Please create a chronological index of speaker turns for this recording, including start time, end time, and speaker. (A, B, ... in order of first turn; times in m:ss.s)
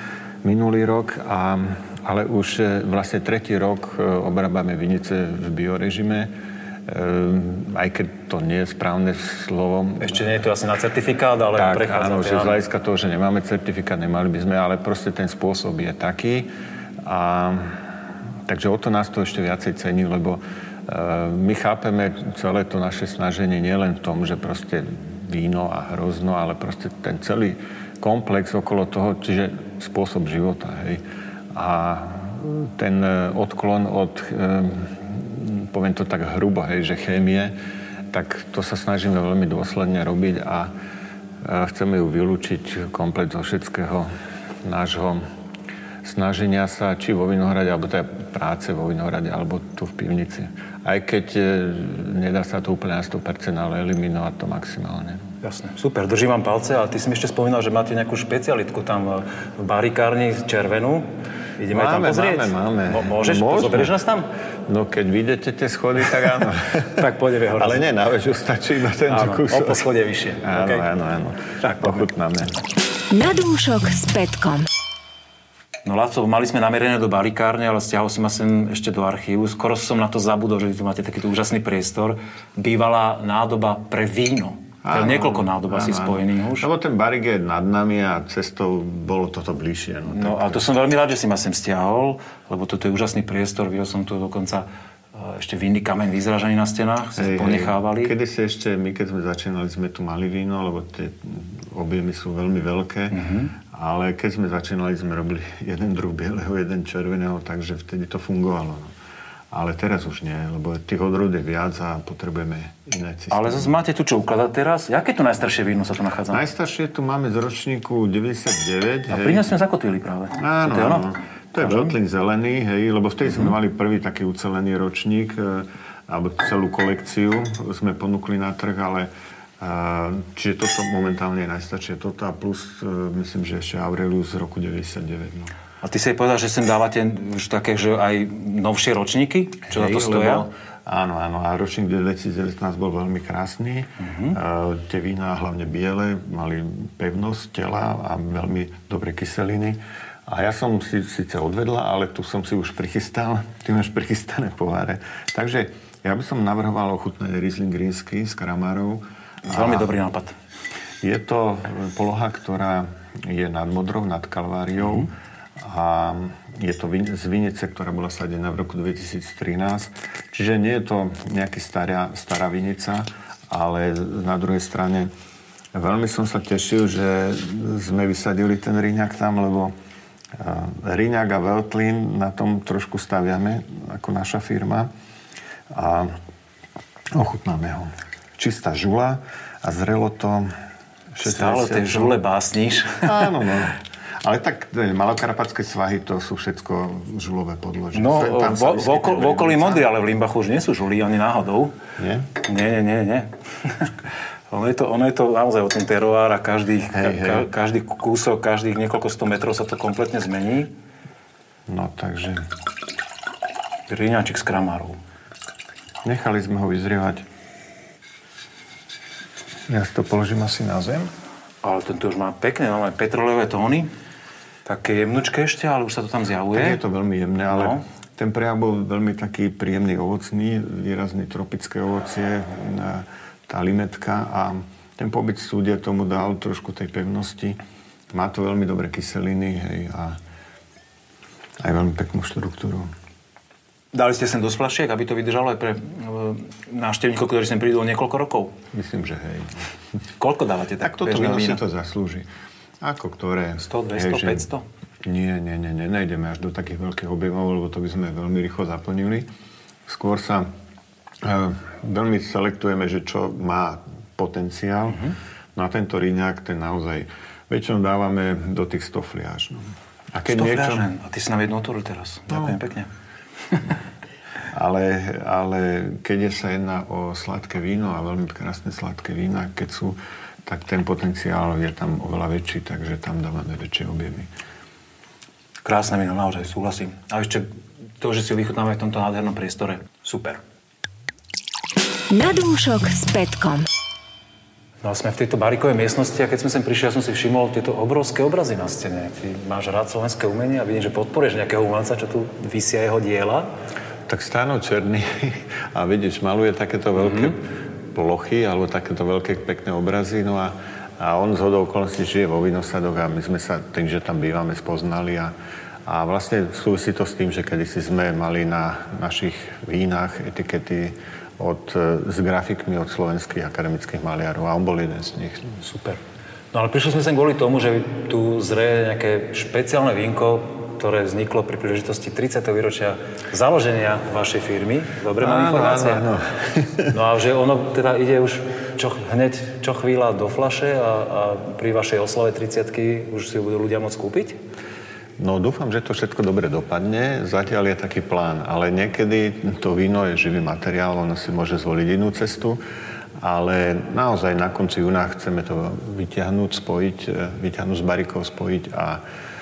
0:00.4-0:06.3 A
0:06.9-0:10.3 A
0:10.0-0:12.6 B
0:11.6-0:16.5 A
0:17.0-0:17.8 A
0:18.5-0:37.6 A
0:38.1-0:40.7 A
0:41.4-0:44.1 A
0:44.6-0:45.2 A
0:46.0-0:55.3 A
0:55.4-1:04.3 B
1:01.7-1:04.0 A
1:04.7-1:09.9 A
1:06.9-1:07.9 B
1:09.1-1:10.9 B
1:10.4-1:12.6 A
1:11.6-1:12.0 B
1:13.1-1:14.7 C
1:15.8-1:26.7 B
1:24.8-1:30.7 A
1:30.1-1:38.2 B
1:37.2-1:48.9 A
1:43.1-1:43.5 B
1:49.5-1:53.7 A
1:53.3-1:56.4 B
1:56.3-1:59.5 A
1:59.1-2:01.9 B
2:00.4-2:15.5 A
2:15.8-2:20.5 B
2:19.7-2:39.9 A
2:24.0-2:24.4 B
2:39.5-2:40.4 B
2:41.0-2:55.1 A
2:55.7-2:59.7 A
3:00.4-3:04.9 A
3:05.7-3:06.2 A
3:07.1-3:10.5 A
3:11.1-3:12.2 A
3:11.2-3:13.1 B
3:13.0-3:19.9 A
3:17.9-3:21.8 B
3:22.0-3:22.3 A
3:22.4-3:24.0 B
3:24.5-3:30.8 B
3:26.9-3:27.5 A
3:31.7-3:32.4 A
3:33.9-3:35.0 B
3:36.0-3:37.3 A
3:39.7-3:41.1 A
3:41.6-3:43.9 B
3:44.6-3:46.8 B
3:46.5-3:57.6 A
3:47.5-3:47.8 B
3:58.1-4:00.2 A
4:01.6-4:02.9 A
4:03.9-4:08.6 B
4:08.7-4:09.7 A
4:10.2-4:11.6 B
4:10.8-4:12.3 A
4:12.8-4:14.5 A
4:13.6-4:14.6 B
4:15.0-4:19.3 A
4:19.9-4:20.5 A
4:21.2-4:30.9 A
4:30.2-4:32.9 B
4:32.3-4:32.6 A
4:34.5-4:44.3 A
4:45.6-4:50.4 B
4:52.1-4:53.7 C
4:54.8-5:03.5 B
5:04.1-5:15.3 A
5:07.0-5:07.4 B
5:15.9-5:25.6 A
5:25.6-5:26.0 B
5:26.5-5:36.1 B
5:35.2-5:37.0 A
5:36.9-5:44.4 B
5:45.2-5:52.6 A
5:53.2-5:59.0 A